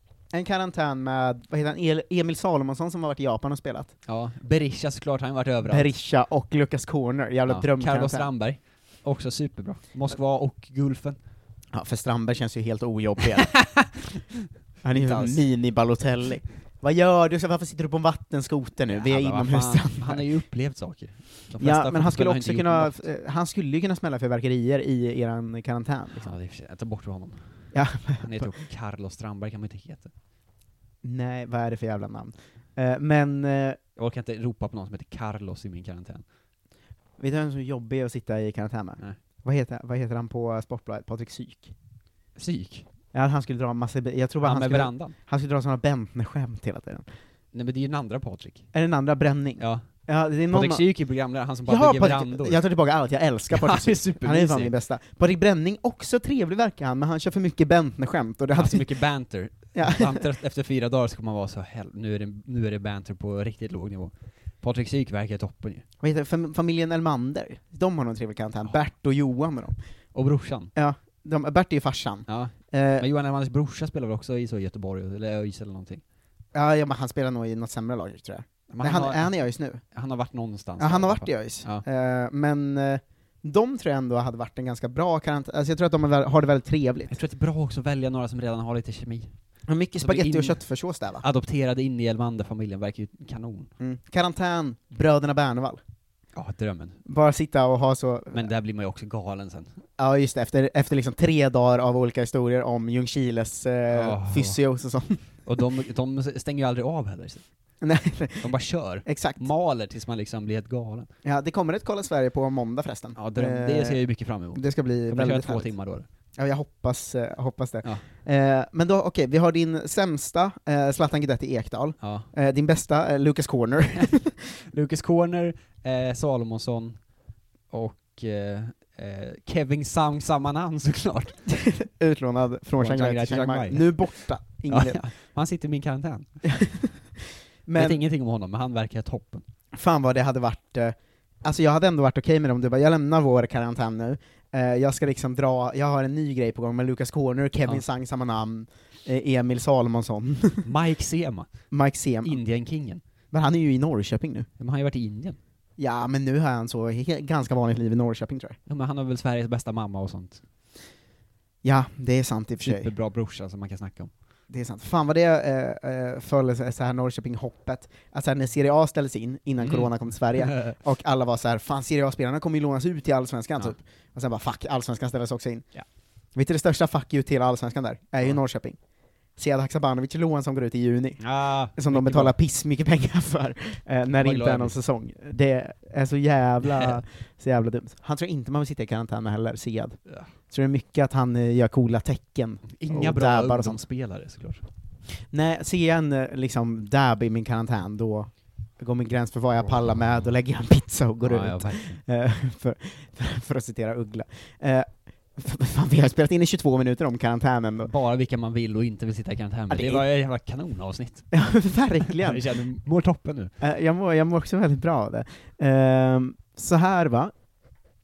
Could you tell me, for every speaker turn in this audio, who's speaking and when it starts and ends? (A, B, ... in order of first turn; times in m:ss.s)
0:00.3-0:03.9 A
0:04.0-0:05.9 B
0:05.6-0:08.3 A
0:07.4-0:11.2 B
0:11.7-0:13.5 A
0:13.6-0:14.0 B
0:14.8-0:20.2 A
0:14.9-0:15.4 B
0:18.9-0:23.0 B
0:21.6-0:26.3 A
0:26.1-0:27.4 B
0:27.7-0:28.5 A
0:28.2-0:30.1 B
0:31.0-0:33.8 A
0:34.0-0:36.2 B
0:37.2-0:41.7 A
0:42.4-0:42.8 B
0:43.1-0:47.0 A
0:44.4-0:45.1 B
0:47.5-0:48.6 B
0:48.7-0:50.8 A
0:49.6-0:49.8 B
0:50.5-0:52.6 B
0:51.6-0:58.9 A
0:53.5-0:54.7 B
0:58.5-1:05.8 B
0:59.7-1:00.2 A
1:06.0-1:09.8 A
1:10.1-1:10.7 B
1:10.8-1:13.0 A
1:12.3-1:16.0 B
1:16.5-1:19.8 A
1:18.7-1:19.3 B
1:19.9-1:21.8 B
1:20.8-1:27.1 A
1:27.1-1:29.3 B
1:29.7-1:31.2 A
1:30.0-1:30.6 B
1:31.2-1:33.7 B
1:33.8-1:35.8 A
1:36.3-1:37.0 B
1:37.0-1:38.5 A
1:38.3-1:39.7 B
1:40.0-1:45.2 A
1:43.9-1:44.6 B
1:45.4-1:47.4 B
1:47.8-1:48.5 A
1:48.4-1:51.1 B
1:49.0-1:49.4 A
1:51.2-1:54.0 A
1:53.2-1:56.0 B
1:54.5-1:55.7 A
1:56.4-2:04.4 A
2:02.0-2:02.3 B
2:04.7-2:07.0 B
2:07.7-2:11.4 B
2:11.5-2:15.0 A
2:12.8-2:14.1 B
2:14.7-2:16.3 B
2:16.4-2:17.0 A
2:17.6-2:18.0 A
2:17.7-2:19.4 B
2:19.7-2:30.7 A
2:30.6-2:31.5 B
2:31.7-2:32.4 A
2:32.2-2:33.0 B
2:33.3-2:34.5 A
2:34.6-2:35.4 B
2:35.8-2:38.6 A
2:38.7-2:40.4 B
2:41.6-2:42.9 A
2:42.6-2:44.1 B
2:44.5-2:55.6 A
2:49.6-2:50.8 B
2:56.3-2:58.8 A
2:59.4-3:01.2 A
3:01.2-3:02.3 B
3:01.7-3:10.0 A
3:04.1-3:04.7 B
3:06.6-3:07.0 B
3:10.5-3:13.8 A
3:12.7-3:14.6 B
3:15.3-3:27.9 A
3:21.2-3:22.0 B
3:27.8-3:31.3 B
3:29.7-3:30.0 A
3:31.3-3:32.5 A
3:32.0-3:33.5 B
3:33.6-3:37.3 A